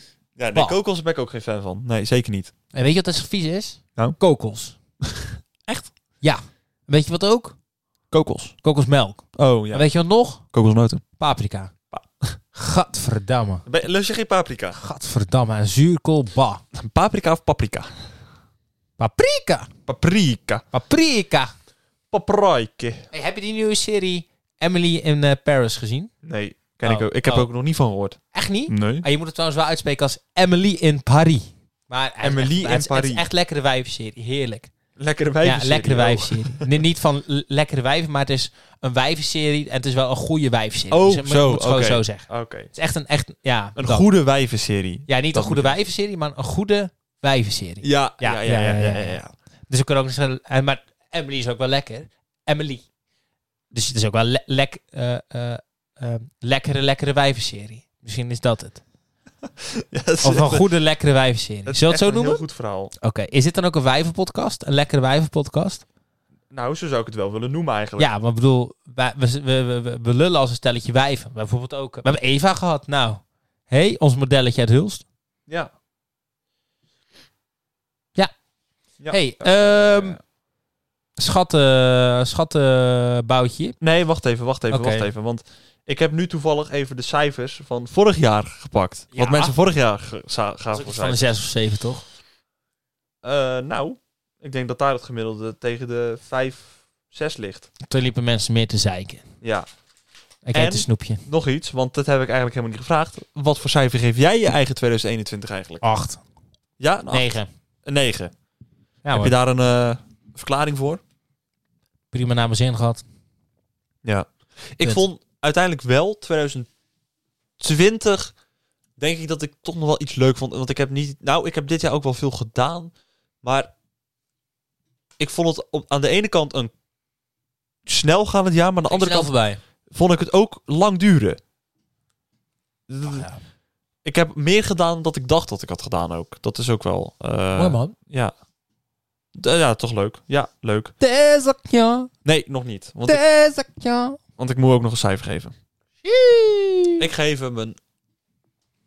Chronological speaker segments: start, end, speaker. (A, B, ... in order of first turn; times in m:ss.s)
0:00.4-0:02.5 A
0:02.7-0:04.8 B
0:05.0-0:05.9 A
0:06.2-0:07.6 B
0:08.1-0:08.5 A
0:08.6-0:10.4 B
0:09.3-0:09.9 A
0:10.5-0:11.0 A
0:11.2-0:11.7 B
0:11.9-0:12.4 A
0:12.5-0:13.6 B
0:13.6-0:14.8 A
0:14.7-0:16.6 B
0:16.7-0:17.9 A
0:19.0-0:19.7 B
0:19.8-0:20.6 A
0:20.7-0:21.5 B
0:22.1-0:23.1 A
0:23.1-0:26.1 B
0:26.2-0:29.0 A
0:26.8-0:27.5 B
0:28.3-0:34.7 B
0:32.2-0:33.2 A
0:35.0-0:36.8 A
0:35.4-0:44.0 B
0:40.9-0:42.7 A
0:43.8-0:45.7 A
0:45.1-0:52.8 B
0:47.8-0:49.2 A
0:53.7-0:58.8 B
0:59.6-1:00.6 A
1:00.2-1:02.4 B
1:01.6-1:02.9 A
1:03.0-1:05.8 B
1:06.5-1:08.1 A
1:08.0-1:15.0 B
1:19.0-1:20.2 A
1:19.1-1:20.2 B
1:21.2-1:23.8 B
1:23.8-1:31.2 A
1:24.7-1:25.1 B
1:29.1-1:29.6 B
1:30.7-1:32.0 B
1:33.2-1:37.7 A
1:37.8-1:39.2 B
1:39.4-1:39.7 A
1:40.4-1:41.2 B
1:40.5-1:45.8 A
1:45.8-1:46.2 B
1:46.8-1:47.3 A
1:47.1-1:47.5 B
1:47.8-1:48.3 A
1:49.0-1:49.3 B
1:49.1-1:51.0 A
1:52.1-1:53.0 B
1:54.0-1:56.7 A
1:57.6-1:58.3 A
1:59.0-2:02.9 A
2:03.4-2:03.7 A
2:05.2-2:06.7 A
2:07.8-2:09.3 A
2:08.9-2:09.6 B
2:09.9-2:11.4 A
2:12.9-2:13.2 A
2:13.0-2:13.4 B
2:14.0-2:18.3 A
2:17.6-2:17.9 B
2:19.3-2:20.9 A
2:21.0-2:22.1 B
2:22.2-2:23.2 A
2:23.0-2:24.2 B
2:24.4-2:25.5 A
2:26.0-2:27.0 B
2:27.0-2:27.8 A